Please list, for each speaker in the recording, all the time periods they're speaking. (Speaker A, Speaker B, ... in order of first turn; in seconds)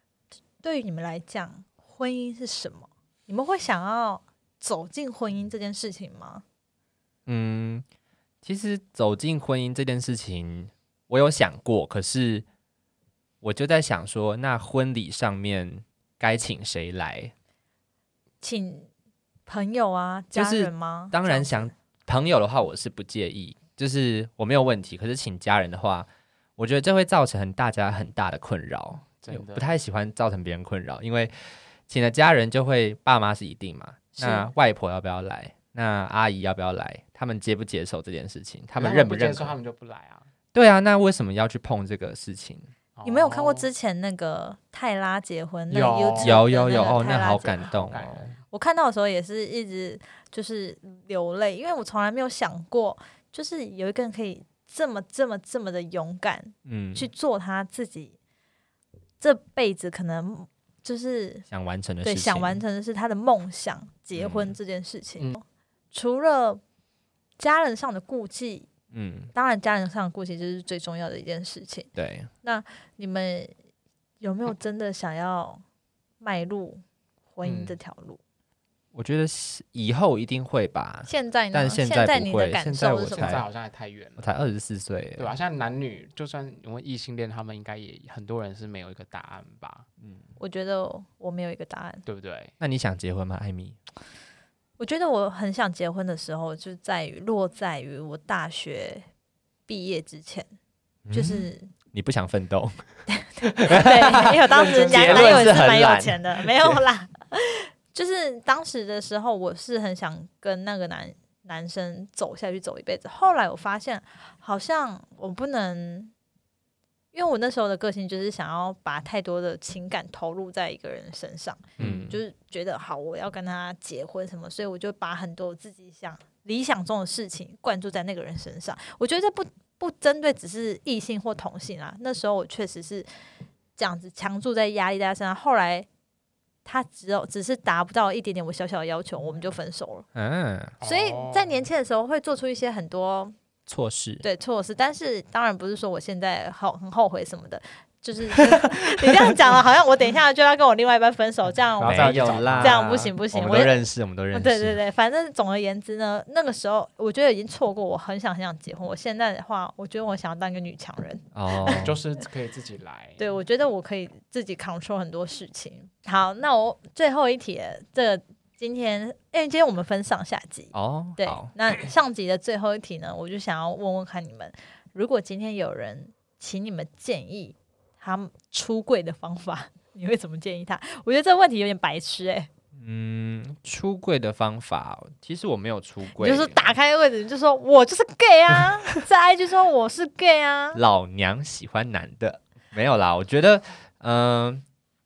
Speaker A: 0.6-6.4, 18.4-18.9, 19.5-21.7, 34.1-34.5, 43.0-47.6, 48.5-58.2, 59.2-61.4, 62.0-66.6, 67.4-68.7, 69.3-71.9, 72.4-73.5, 74.2-75.6, 76.2-76.8, 77.3-78.2, 81.0-83.4, 90.4-92.0, 94.8-99.0, 99.7-100.5, 101.1-101.7, 103.1-116.1, 117.1-133.1, 133.8-135.9, 136.6-140.1, 140.8-143.3, 144.2-153.8, 154.3-161.8, 163.2-182.5, 186.2-190.8
Speaker B: 7.2-7.8, 8.4-12.4, 13.4-17.3, 20.3-31.3, 31.9-39.5, 40.5-42.7, 46.2-48.3, 56.6-57.1, 61.5-62.6, 64.1-64.5, 68.9-69.3, 72.0-72.3, 78.9-83.5, 84.2-85.3, 92.6-93.8, 101.0-102.8, 103.5-106.8, 121.8-122.2, 140.1-140.8, 143.7-144.2, 148.5-149.3, 151.8-154.8, 161.3-162.0, 170.7-171.5, 182.7-186.7, 190.7-194.6
Speaker C: 29.2-29.7, 38.8-40.3, 43.0-43.6, 45.7-48.4, 77.4-77.8, 83.2-84.3, 85.2-89.9, 92.0-92.5, 104.5-105.5, 140.8-141.6, 151.8-153.0, 161.7-163.2